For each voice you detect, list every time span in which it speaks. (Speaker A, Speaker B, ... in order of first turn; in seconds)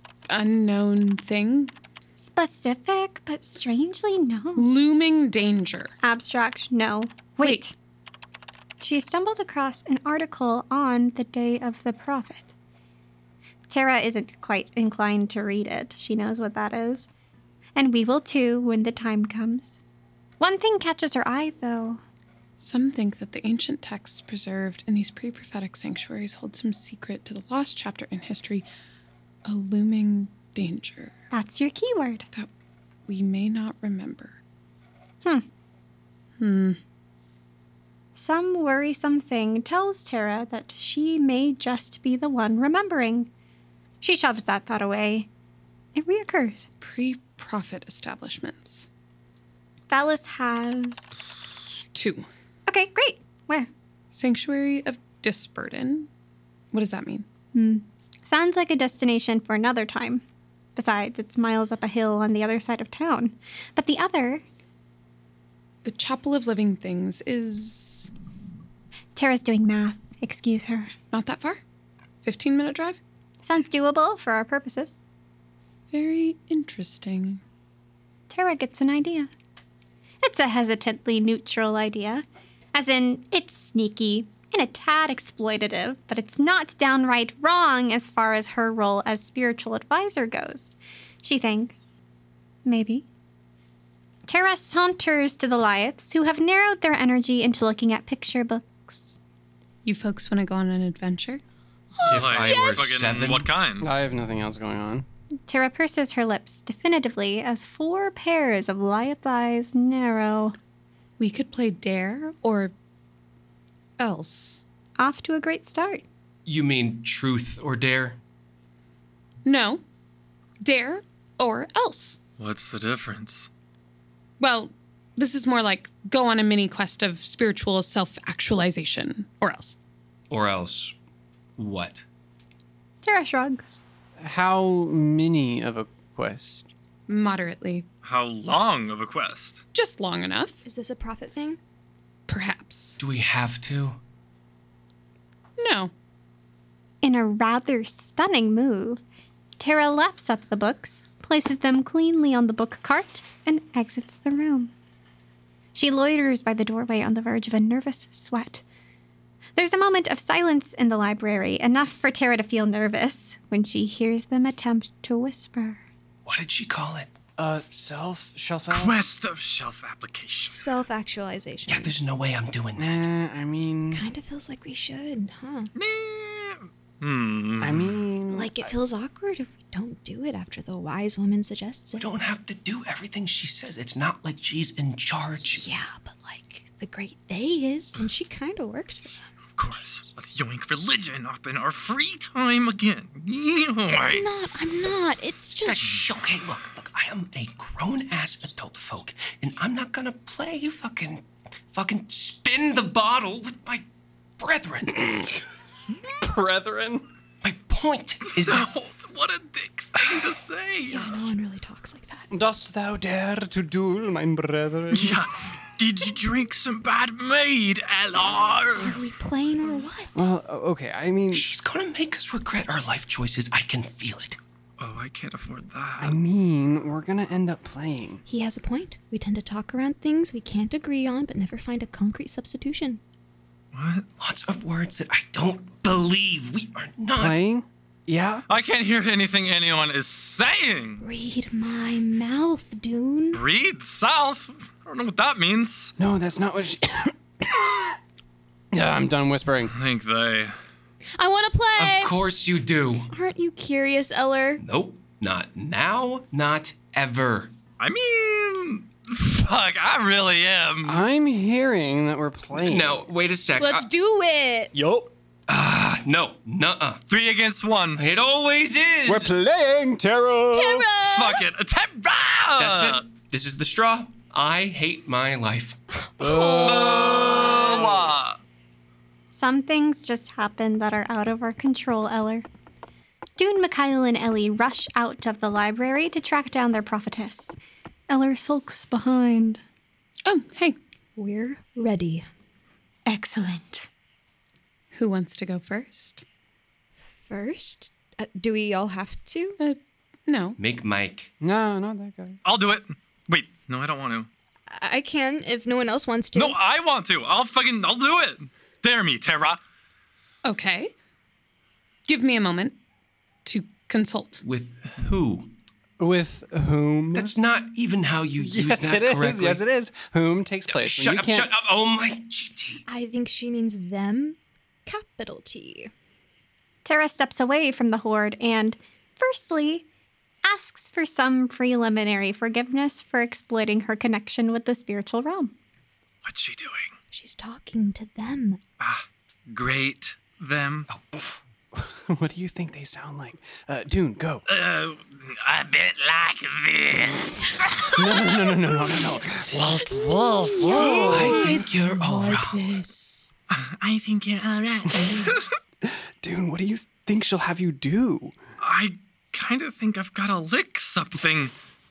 Speaker A: 0.3-1.7, 4.5-5.9, 7.4-7.7, 22.6-28.7, 29.4-31.1, 33.1-34.4, 36.4-36.8, 46.8-48.9, 51.9-52.3, 54.1-56.1, 56.7-57.2, 65.8-68.1, 71.1-71.6, 72.2-73.0, 75.9-77.4, 99.8-101.4, 111.2-112.7, 114.0-114.6, 119.4-119.8, 120.6-122.2, 124.4-129.8, 137.1-137.8, 139.7-140.6, 142.3-143.0, 145.6-145.9, 290.2-290.8, 294.9-296.2, 299.6-300.6, 310.4-310.9, 312.1-312.8, 313.4-314.4
Speaker B: 2.2-4.7, 6.0-7.7, 8.8-12.5, 13.7-17.1, 17.8-19.8, 20.4-22.0, 31.3-32.3, 38.1-43.3, 44.0-45.3, 45.9-46.7, 49.9-51.1, 52.7-53.7, 57.5-60.2, 60.8-64.4, 69.2-70.9, 73.4-74.9, 78.3-79.3, 80.2-91.8, 92.6-93.0, 94.3-99.2, 105.5-110.5, 115.0-116.0, 133.0-133.8, 147.0-149.0, 149.6-154.7, 155.7-158.6, 159.6-165.8, 279.3-282.4, 283.4-287.5, 288.1-289.6, 293.1-293.9, 326.8-329.8, 330.4-335.5
Speaker C: 102.0-102.8, 140.6-141.6, 170.4-171.9, 173.9-175.7, 178.3-182.1, 185.4-189.3, 193.9-195.9, 210.9-212.3, 218.8-220.3, 228.3-233.0, 241.0-243.4, 251.2-252.1, 253.1-254.6, 263.6-264.7, 270.5-271.4, 276.0-276.8, 291.2-292.3, 297.2-299.6, 304.7-306.6, 322.9-325.9, 337.1-338.6, 349.8-353.3
Speaker D: 102.0-103.5, 116.5-118.2, 130.3-130.9, 131.6-132.0, 143.0-144.0, 166.2-167.1, 171.7-173.1, 182.0-185.6, 195.6-203.8, 204.4-205.3, 207.4-208.7, 221.3-224.4, 234.2-237.4, 251.8-253.1, 254.6-257.5, 262.5-263.9, 265.5-267.0, 267.9-269.3, 272.6-275.8, 276.8-278.0, 300.6-301.3, 314.4-315.5, 317.1-319.6, 320.7-322.8, 350.7-352.6
Speaker E: 102.1-103.9, 122.4-123.5, 138.0-139.6, 168.7-170.8, 175.8-178.0, 189.6-194.3, 208.4-211.2, 214.9-219.0, 224.8-226.2, 233.7-234.0, 238.5-241.0, 243.3-245.9, 249.7-250.6, 257.8-261.0, 267.1-268.0, 271.0-273.0, 276.4-278.4, 302.4-304.3, 306.3-309.6, 336.2-336.9, 338.8-340.9, 344.5-348.3, 349.5-351.4, 353.5-355.5, 358.6-361.5
Speaker F: 103.8-105.0, 134.2-136.6, 167.4-169.0, 172.8-174.0, 177.6-178.7, 204.9-205.2, 206.2-207.1, 212.3-215.2, 220.1-221.4, 226.0-228.2, 237.2-238.4, 246.0-247.9, 248.7-249.7, 260.9-263.0, 264.8-265.1, 269.1-270.8, 276.3-276.6, 301.4-302.4, 316.0-317.3, 318.4-321.5, 341.7-344.4, 347.9-349.7, 350.6-351.8, 355.8-358.4